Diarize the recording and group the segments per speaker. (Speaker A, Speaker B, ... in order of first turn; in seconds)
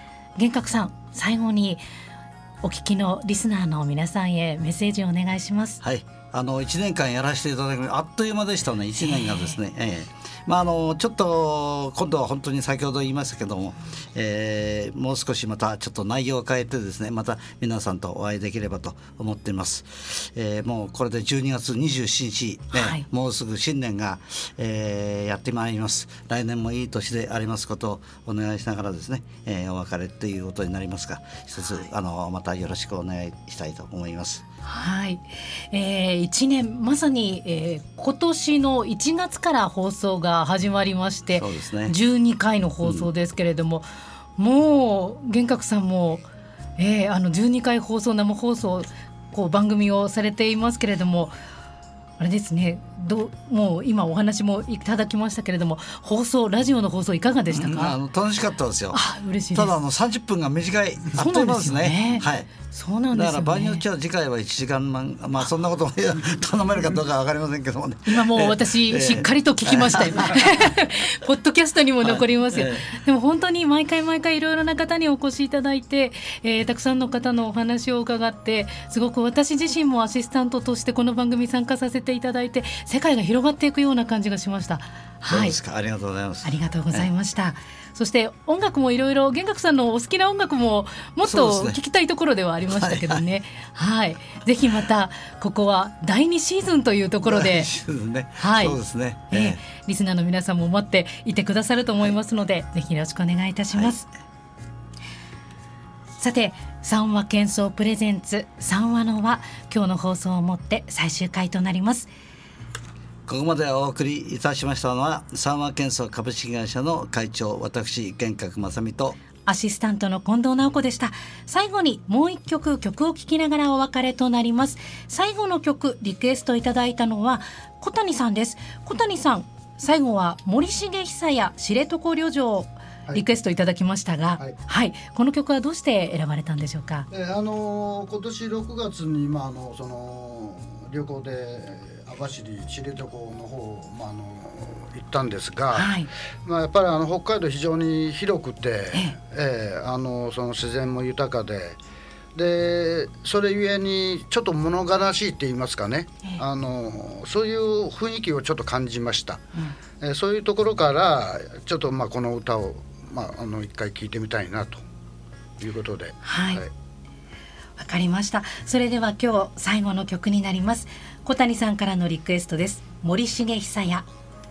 Speaker A: 0.3-1.8, 2.6-5.8, 9.0-9.6, 22.7-23.0, 34.6-46.2, 46.8-51.4, 52.2-58.0, 58.9-59.7, 61.1-63.8, 68.0-85.6, 86.4-97.7, 98.4-98.8, 99.3-104.1, 106.2-112.1, 119.4-137.1, 145.7-146.1, 148.9-149.2, 166.2-166.6, 167.8-174.1
Speaker B: 5.8-34.4, 41.3-41.9, 42.8-43.1, 57.5-59.0, 59.5-62.5, 63.1-70.7, 72.0-72.9, 85.3-87.1, 91.2-91.8, 92.7-93.2, 97.2-99.6, 113.3-119.2
Speaker C: 137.1-145.9, 146.4-151.8, 152.3-159.4, 160.0-164.8, 165.6-166.7